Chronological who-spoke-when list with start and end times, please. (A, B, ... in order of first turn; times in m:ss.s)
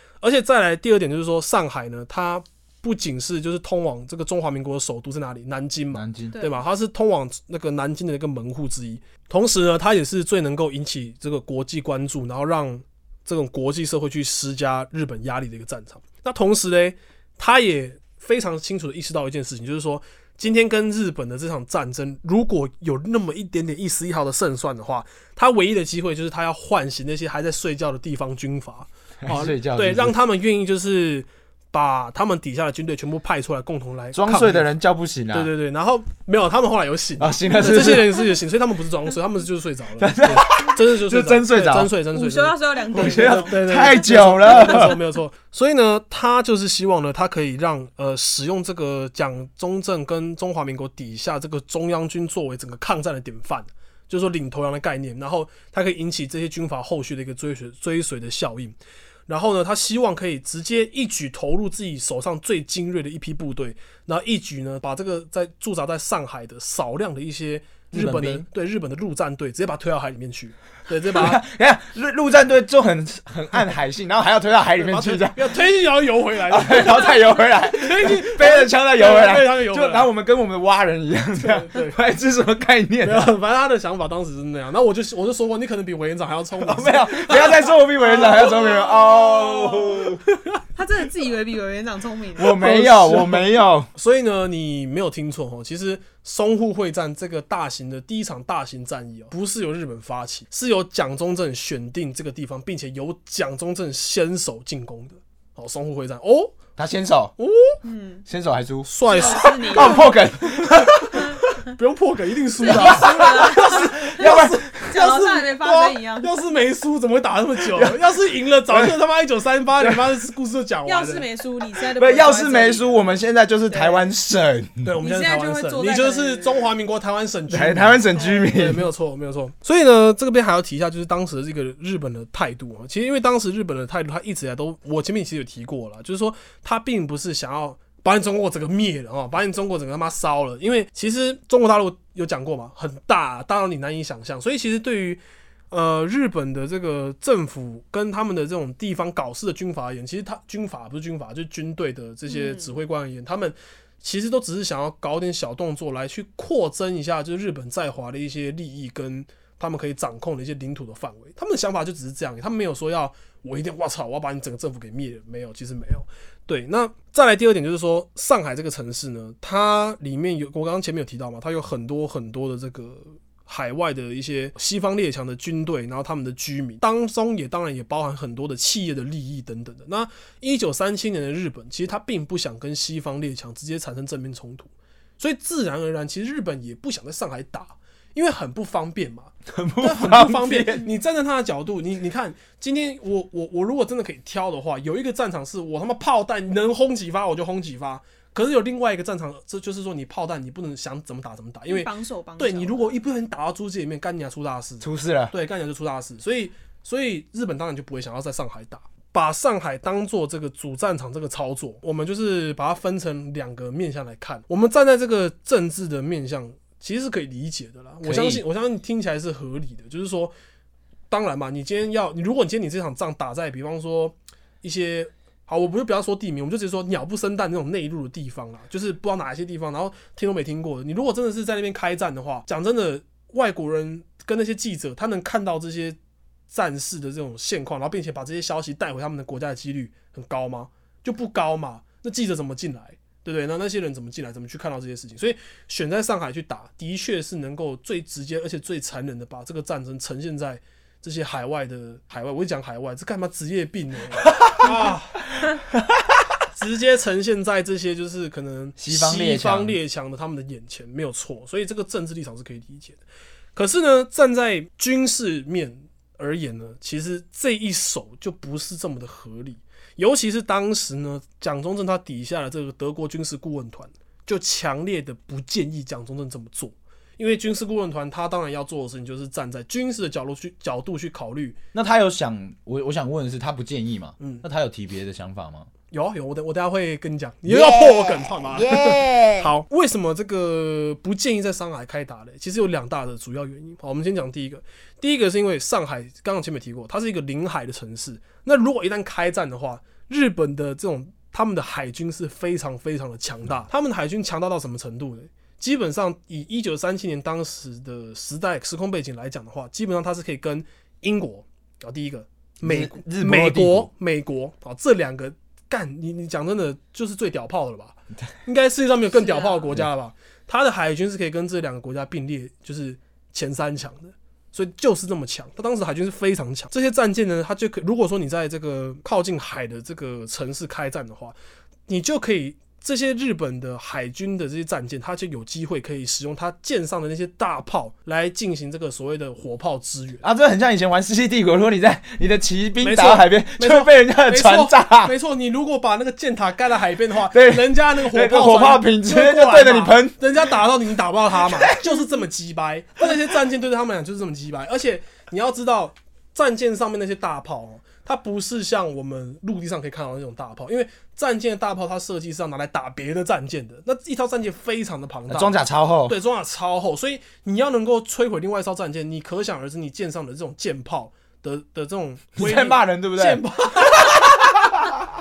0:00.2-0:34.7 A
0:05.9-0:06.4 B
0:06.3-0:06.6 C
0:29.2-0:30.2 B
0:34.1-0:35.5 B
0:35.3-1:11.4 A
0:37.2-0:38.2 B
0:40.0-0:41.9 B
0:42.1-0:44.9 C
0:42.9-0:45.0 B
1:07.9-1:08.4 B
1:11.1-1:15.5 B
1:14.8-1:20.1 A
1:16.5-1:23.3 B
1:21.4-1:22.0 A
1:23.0-1:28.5 A
1:26.6-1:30.2 B
1:28.2-1:30.0 C
1:30.3-1:30.6 A
1:30.8-1:32.6 C
1:32.4-1:33.9 B
1:32.5-1:46.6 A
1:46.8-1:47.3 B
1:47.4-1:47.8 A
1:47.8-1:48.2 C
1:48.3-1:51.2 B
1:48.8-1:50.0 A
1:49.1-1:50.1 C
1:50.6-2:01.2 A
1:52.6-1:56.3 C
1:52.7-1:54.9 B
1:58.7-1:59.0 B
2:00.9-2:03.1 C
2:02.0-2:04.9 B
2:03.7-2:04.1 C
2:04.8-3:40.3 A
2:05.0-2:06.7 C
2:07.5-2:08.9 B
2:32.3-2:32.7 C
3:09.5-3:10.9 B
3:21.7-3:23.0 C
3:24.8-3:25.3 B
3:38.0-3:38.4 B
3:41.1-3:56.0 A
3:56.5-4:15.2 A
4:16.5-4:23.0 A
4:18.8-4:19.8 B
4:23.6-4:41.6 A
4:41.7-4:45.7 B
4:44.2-4:44.4 A
4:45.9-5:31.4 A
4:47.5-4:49.5 B
5:12.6-5:13.9 B
5:19.1-5:19.7 C
5:31.9-5:40.2 A
5:40.2-5:45.1 B
5:42.8-6:05.5 A
5:47.3-5:50.2 B
5:51.4-5:52.0 B
6:05.3-6:06.2 B
6:06.1-6:14.4 A
6:12.4-6:15.1 B